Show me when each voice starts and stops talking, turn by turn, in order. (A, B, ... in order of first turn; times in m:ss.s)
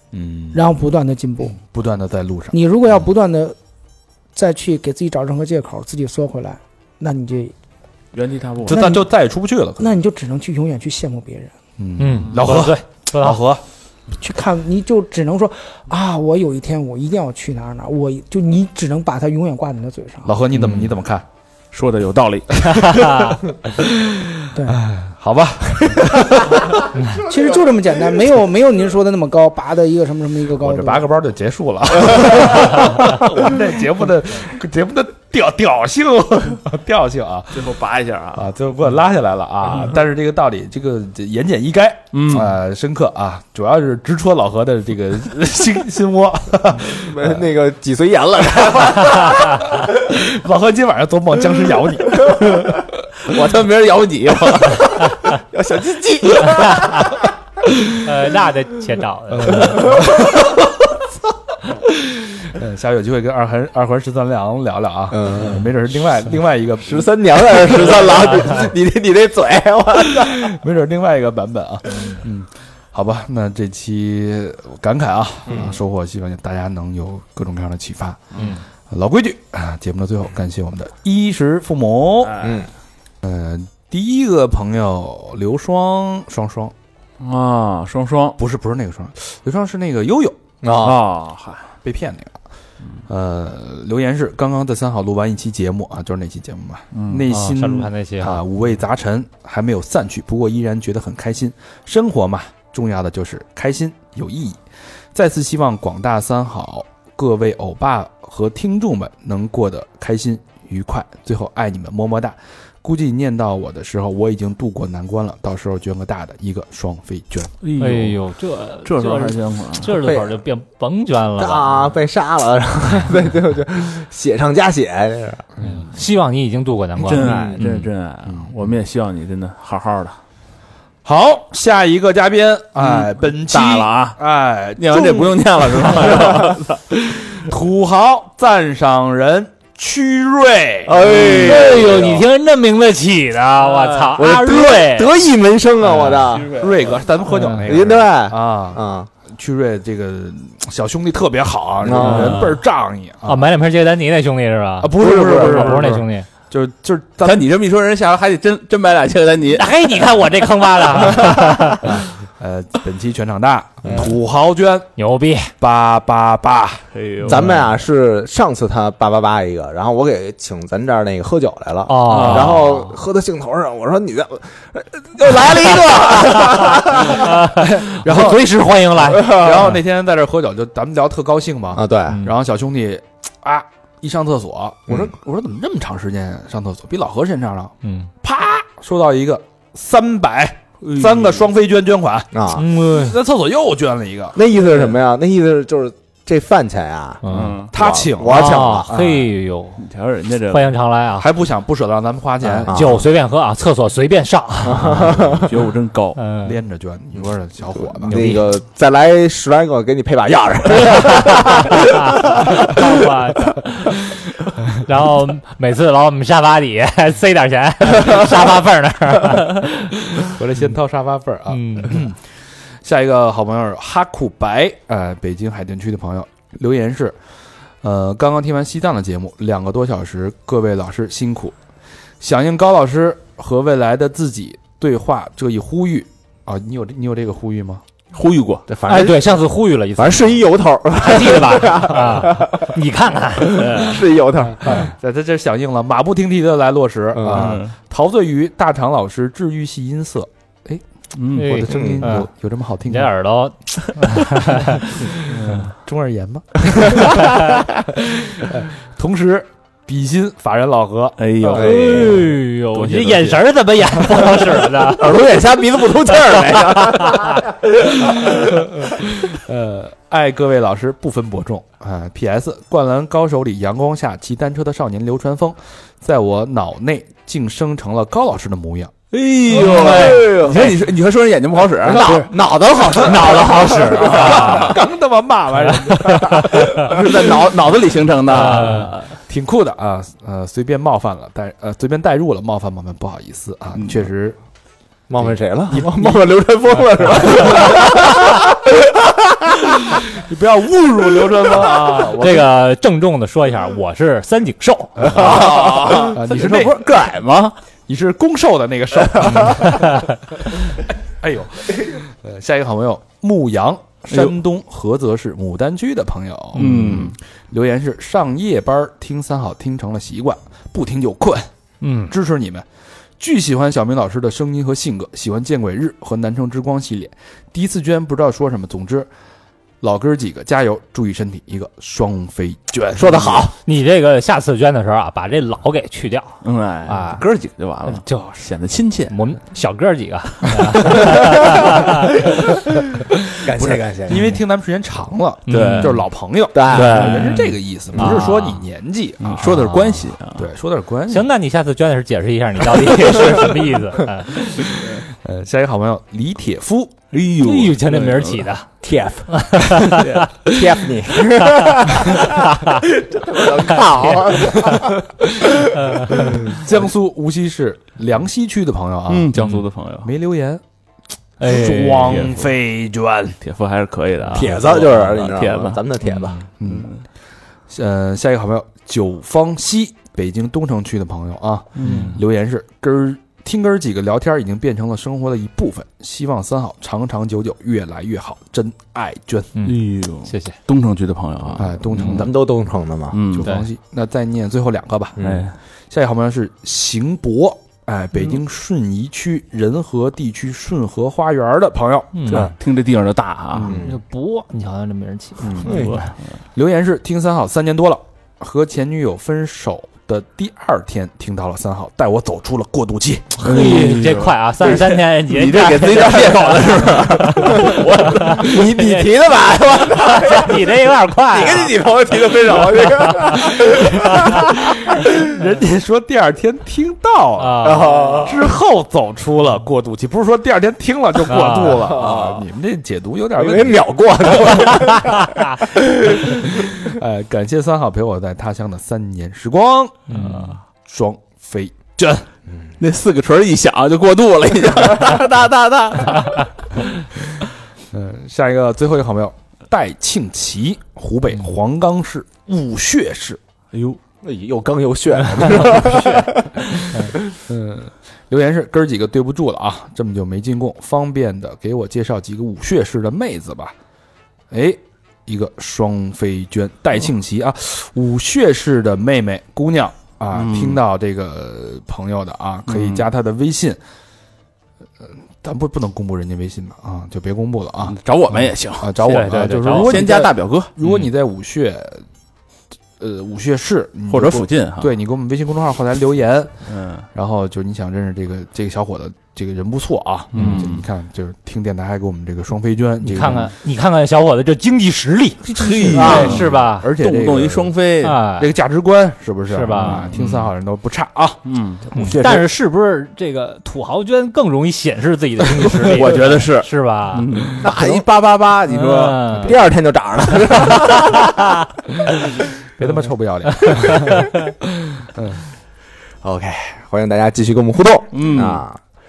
0:00.1-0:00.7 A
0:00.5-0:01.6 B
0:01.5-0:02.6 A
0:02.5-0:03.6 B
0:04.4-0:07.6 B
0:08.1-0:09.0 C
0:08.7-0:09.9 A
0:08.7-0:09.0 B
0:09.8-0:11.5 B
0:11.8-0:13.6 A
0:12.0-0:13.4 D
0:14.2-0:20.3 B
0:20.3-0:21.2 A
0:21.7-0:22.7 C
0:22.7-0:23.4 D
0:23.7-0:26.9 A
0:24.5-0:24.8 B
0:27.0-0:27.2 D
0:27.2-0:31.1 B
0:30.6-0:37.7 A
0:37.5-0:38.5 C
0:38.3-0:47.4 A
0:42.1-0:42.6 C
0:46.8-0:49.3 E
0:48.8-0:52.8 A
0:53.2-0:54.9 C
0:55.5-0:57.1 E
0:57.9-1:00.0 D
0:59.3-1:00.8 A
1:01.8-1:08.0 A
1:05.1-1:05.7 E
1:06.8-1:10.5 E
1:10.2-1:22.5 A
1:22.2-1:22.6 C
1:22.4-1:22.7 E
1:23.2-1:26.7 A
1:27.2-1:28.4 C
1:28.4-1:30.4 A
1:30.6-1:31.0 E
1:30.8-1:31.7 C
1:31.8-1:32.3 A
1:33.1-1:44.6 A
1:36.9-1:37.3 C
1:37.3-1:38.4 D
1:45.1-1:57.6 A
1:57.6-1:58.2 C
1:57.8-2:01.7 D
1:58.8-2:00.0 C
2:00.0-2:00.4 E
2:01.4-2:05.5 E
2:05.6-2:05.9 A
2:05.6-2:07.5 D
2:07.0-2:10.2 C
2:07.2-2:07.6 E
2:07.6-2:08.5 A
2:11.0-2:16.4 A
2:12.8-2:14.2 C
2:14.8-2:16.8 C
2:17.0-2:21.0 A
2:20.9-2:22.3 E
2:21.0-2:21.7 C
2:21.3-2:25.1 D
2:23.6-2:24.3 C
2:24.2-2:26.6 E
2:25.8-2:27.1 C
2:26.6-2:33.5 A
2:27.3-2:27.6 D
2:27.6-2:29.1 E
2:31.8-2:32.5 E
2:32.0-2:32.5 D
2:32.1-2:32.5 C
2:33.2-2:36.3 D
2:34.8-2:37.5 A
2:35.0-2:35.8 E
2:37.2-2:39.7 C
2:39.5-2:41.9 D
2:41.8-2:44.9 A
2:43.8-2:44.1 E
2:45.0-2:45.5 D
2:45.6-2:47.4 A
2:46.9-2:47.5 C
2:47.2-2:57.4 E
2:51.9-2:52.7 D
2:52.0-2:52.9 C
2:56.3-2:59.7 D
2:57.8-2:58.5 A
2:59.1-3:14.4 A
2:59.1-2:59.7 E
3:01.7-3:02.2 E
3:07.8-3:08.1 D
3:10.8-3:11.4 C
3:12.3-3:12.6 E
3:12.5-3:13.2 D
3:14.4-3:18.9 E
3:17.2-3:17.6 D
3:17.3-3:17.7 C
3:17.7-3:19.3 A
3:18.3-3:19.8 D
3:19.8-3:20.8 C
3:20.5-3:21.3 D
3:21.2-3:22.8 A
3:22.4-3:23.1 E
3:22.6-3:25.0 D
3:24.6-3:25.5 E
3:25.3-3:26.2 C
3:26.2-3:26.6 D
3:26.4-3:28.2 A
3:28.0-3:28.5 D
3:28.1-3:32.9 E
3:31.3-3:34.0 D
3:34.7-3:39.9 D
3:40.2-3:42.2 A
3:41.5-3:42.0 D
3:42.8-3:47.2 A
3:47.8-3:51.6 A
3:52.2-3:57.8 A
3:58.1-3:58.7 C
3:58.7-3:59.4 E
3:58.9-4:00.4 D
4:00.0-4:02.7 E
4:01.0-4:03.8 D
4:03.4-4:04.9 E
4:03.6-4:04.0 C
4:04.6-4:13.1 A
4:07.1-4:07.6 E
4:07.3-4:07.7 C
4:11.2-4:11.5 C
4:11.4-4:12.3 D
4:11.7-4:12.2 E
4:12.9-4:15.0 D
4:15.0-4:21.2 A
4:15.3-4:15.7 C
4:16.9-4:17.6 D
4:21.2-4:23.5 C
4:21.4-4:25.2 D
4:21.5-4:22.3 E
4:24.9-4:27.5 E
4:26.3-4:27.4 D
4:27.8-4:38.9 A
4:39.1-4:42.0 C
4:39.5-4:40.8 D
4:39.9-4:40.6 E
4:41.8-4:44.6 E
4:42.0-4:42.3 D
4:43.0-4:46.7 A
4:43.2-4:44.8 D
4:44.0-4:44.8 C
4:45.7-4:46.8 D
4:46.8-4:49.1 C
4:46.8-4:47.6 E
4:48.3-4:48.9 D
4:49.3-4:54.4 A
4:55.1-4:59.7 E
4:55.2-4:56.3 A
5:00.1-5:02.5 A
5:01.9-5:05.2 D
5:05.0-5:07.6 C
5:05.2-5:06.8 A
5:07.9-5:10.2 A
5:09.8-5:10.2 D
5:11.2-5:21.5 A
5:16.6-5:17.2 C
5:16.6-5:16.9 D
5:21.8-5:22.2 D
5:22.1-5:22.7 A
5:23.2-5:29.1 A
5:29.8-5:33.5 A
5:32.9-5:33.6 E
5:33.6-5:37.2 D
5:36.4-5:39.2 C
5:37.9-5:38.4 D
5:39.1-5:42.6 D
5:43.0-5:49.5 A
5:43.4-5:44.4 E
5:45.5-5:46.0 D
5:45.5-5:46.1 C
5:46.5-5:47.3 E
5:46.7-5:47.4 C
5:46.9-5:48.6 D
5:49.2-5:50.5 C
5:49.4-5:50.1 D
5:50.3-5:51.3 A
5:51.1-5:54.5 D
5:54.5-5:56.9 A
5:57.1-5:58.5 C
5:57.4-5:58.7 D
5:58.8-5:59.9 E
5:59.3-6:00.2 D
6:00.0-6:00.7 C
6:00.5-6:05.0 E
6:01.4-6:01.7 D
6:02.5-6:02.8 D
6:03.8-6:04.8 D
6:05.8-6:06.3 D
6:06.1-6:06.6 E
6:06.2-6:09.4 A
6:09.1-6:10.1 C
6:10.0-6:10.6 A
6:11.4-6:12.3 D
6:11.4-6:13.4 A
6:12.1-6:12.5 C
6:13.4-6:17.0 C
6:14.3-6:16.4 E
6:16.6-6:17.0 A
6:17.7-6:29.6 A
6:21.8-6:22.2 C
6:21.8-6:22.2 D
6:29.6-6:30.6 D
6:29.6-6:32.3 C
6:31.6-6:32.4 A
6:32.0-6:33.2 E
6:33.1-6:33.5 C
6:33.3-6:35.3 A
6:33.4-6:33.7 D
6:35.2-6:35.5 E
6:35.2-6:35.6 C
6:35.9-6:42.5 A
6:42.2-6:42.5 D
6:42.3-6:43.8 C
6:43.5-6:43.8 A
6:43.7-6:44.0 E
6:43.8-6:46.0 D
6:45.4-6:46.2 C
6:45.6-6:46.0 E
6:46.5-6:53.7 A
6:53.4-6:58.7 C
6:53.4-6:59.2 D
6:55.8-7:05.0 E
6:59.9-7:01.8 D
7:03.1-7:03.5 D
7:05.0-7:14.7 A
7:07.4-7:08.0 D
7:07.6-7:08.4 E
7:11.3-7:11.8 D
7:11.7-7:12.5 E
7:13.4-7:16.5 E
7:16.1-7:22.3 A
7:20.1-7:20.6 D
7:22.8-7:25.3 C
7:24.8-7:26.3 E
7:27.9-7:33.4 A
7:33.7-7:34.0 C
7:34.2-7:36.6 E
7:35.4-7:36.3 D
7:37.5-7:43.8 A
7:44.5-7:53.8 A
7:50.3-7:50.8 C
7:52.7-7:53.1 C
7:55.4-8:02.1 A
7:57.9-8:01.1 C
7:59.0-8:00.2 D
7:59.9-8:00.3 E
8:03.0-8:13.5 A
8:04.1-8:04.9 C
8:06.7-8:07.1 C
8:10.3-8:10.9 C
8:10.4-8:10.7 D
8:13.0-8:16.9 D
8:15.5-8:18.2 C
8:15.9-8:17.8 A
8:18.0-8:18.5 D
8:18.4-8:21.4 A
8:19.5-8:20.2 D
8:19.7-8:20.5 C
8:21.4-8:22.4 C
8:21.9-8:27.8 D
8:22.0-8:22.5 E
8:25.8-8:29.4 C
8:27.6-8:28.2 E
8:28.7-8:29.6 D
8:29.4-8:31.3 E
8:30.5-8:31.2 D
8:32.8-8:34.3 A
8:33.5-8:34.3 D
8:35.0-8:35.4 A
8:36.2-8:38.8 E
8:38.1-8:38.6 C